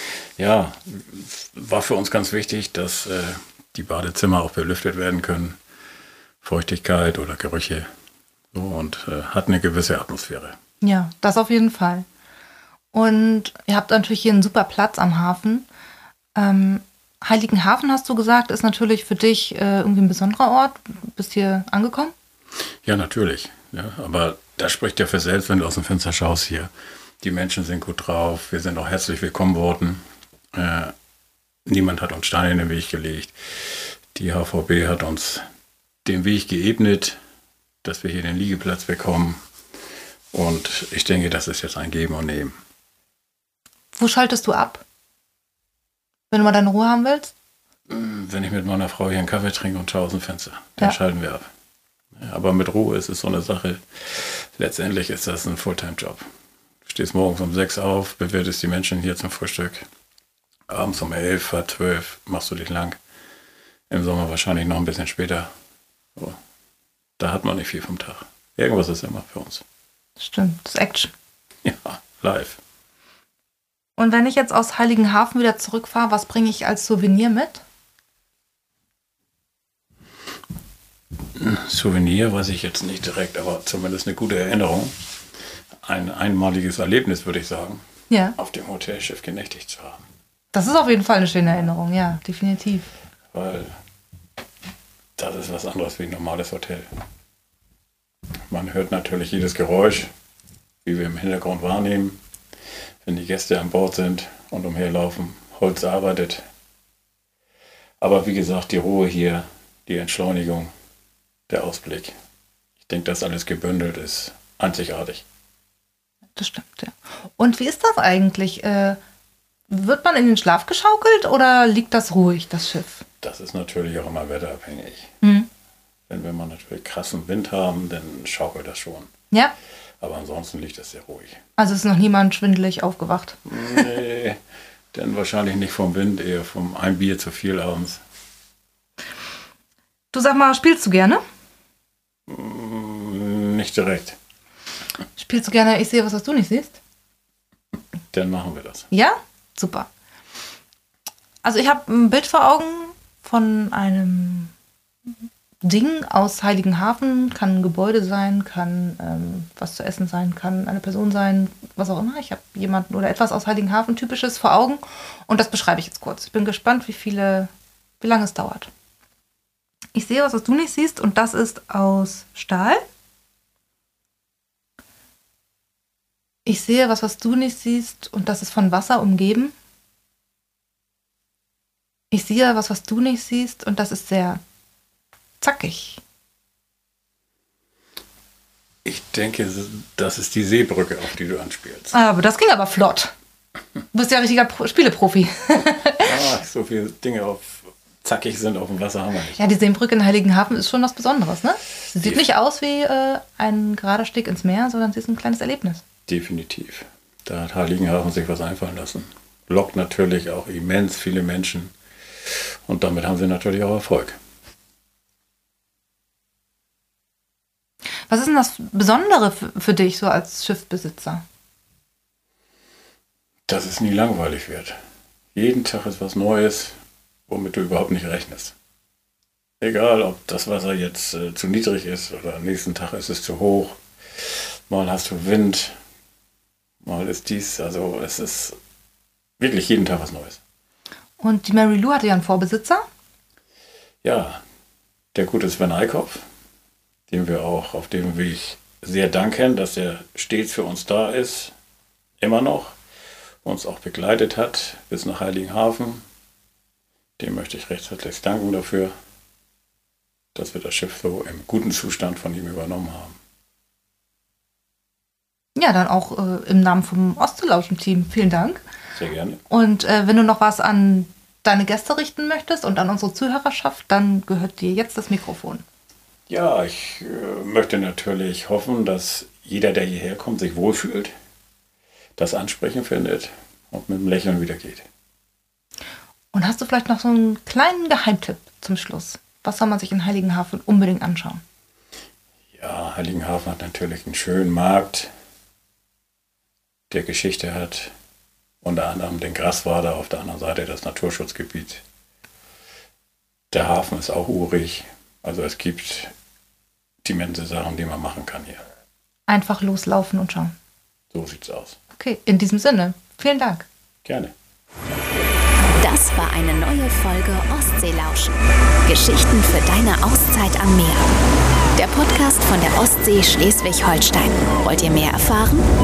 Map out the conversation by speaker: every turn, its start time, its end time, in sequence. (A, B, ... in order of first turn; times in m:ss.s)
0:00.4-0:05.6 A
0:06.4-0:07.9 A
0:08.5-0:10.6 A
0:10.8-0:12.1 B
0:12.9-0:15.7 B
0:16.4-0:22.1 B
0:22.8-0:30.0 A
0:30.5-0:30.9 A
0:31.7-0:35.4 A
0:36.0-0:37.2 A
0:37.8-0:39.4 A
0:40.3-0:42.6 A
0:44.0-0:44.8 B
0:46.3-0:47.3 B
0:47.9-0:51.5 A
0:52.2-0:56.2 A
0:56.8-0:59.9 A
1:00.7-1:03.0 A
1:03.9-1:05.5 A
1:07.2-1:09.6 A
1:10.2-1:11.1 B
1:11.6-1:12.6 A
1:14.0-1:17.6 B
1:21.4-1:25.0 A
1:25.8-1:27.8 A
1:28.1-1:28.4 B
1:28.4-1:30.0 A
1:30.5-1:32.9 B
1:33.3-1:33.8 A
1:35.2-1:36.9 A
1:38.5-1:40.1 A
1:40.8-1:42.2 A
1:43.0-1:46.4 A
1:48.0-1:50.7 A
1:51.5-1:52.2 A
1:52.8-1:55.2 A
1:56.4-1:59.0 B
1:59.7-2:03.0 B
2:03.2-2:05.1 A
2:05.2-2:05.5 B
2:06.1-2:09.1 A
2:10.0-2:11.4 A
2:11.6-2:13.7 B
2:13.5-2:14.4 A
2:14.9-2:18.0 A
2:20.1-2:21.2 B
2:22.3-2:24.2 A
2:25.2-2:26.8 B
2:28.1-2:28.9 A
2:28.9-2:29.9 B
2:31.4-2:34.5 B
2:35.6-2:48.7 B
2:49.9-2:52.8 B
2:56.4-2:59.5 B
3:02.1-3:04.4 B
3:05.4-3:06.0 B
3:08.8-3:12.0 A
3:11.9-3:13.1 B
3:13.9-3:16.2 B
3:16.0-3:19.4 A
3:19.4-3:25.8 B
3:22.0-3:22.2 A
3:26.1-3:31.7 A
3:32.3-3:34.2 A
3:38.1-3:41.2 B
3:43.5-3:44.8 A
3:45.3-3:46.8 A
3:47.3-3:48.6 A
3:49.6-3:55.8 A
3:56.8-3:58.6 A
3:59.4-4:00.4 A
4:01.2-4:02.8 B
4:04.0-4:04.4 A
4:05.1-4:06.2 A
4:07.1-4:11.5 A
4:12.2-4:12.8 A
4:13.4-4:16.0 A
4:17.2-4:18.9 A
4:20.4-4:23.2 A
4:25.6-4:28.6 B
4:28.9-4:29.4 A
4:29.5-4:35.6 B
4:36.3-4:41.1 A
4:42.2-4:44.9 A
4:46.3-4:51.4 B
4:52.5-4:55.1 A
4:56.9-4:57.9 A
4:58.6-5:01.8 A
5:03.5-5:06.1 A
5:07.0-5:08.6 A
5:09.3-5:10.6 B
5:11.1-5:11.8 A
5:12.0-5:13.7 B
5:14.0-5:14.3 A
5:15.8-5:21.1 C
5:21.8-5:25.6 C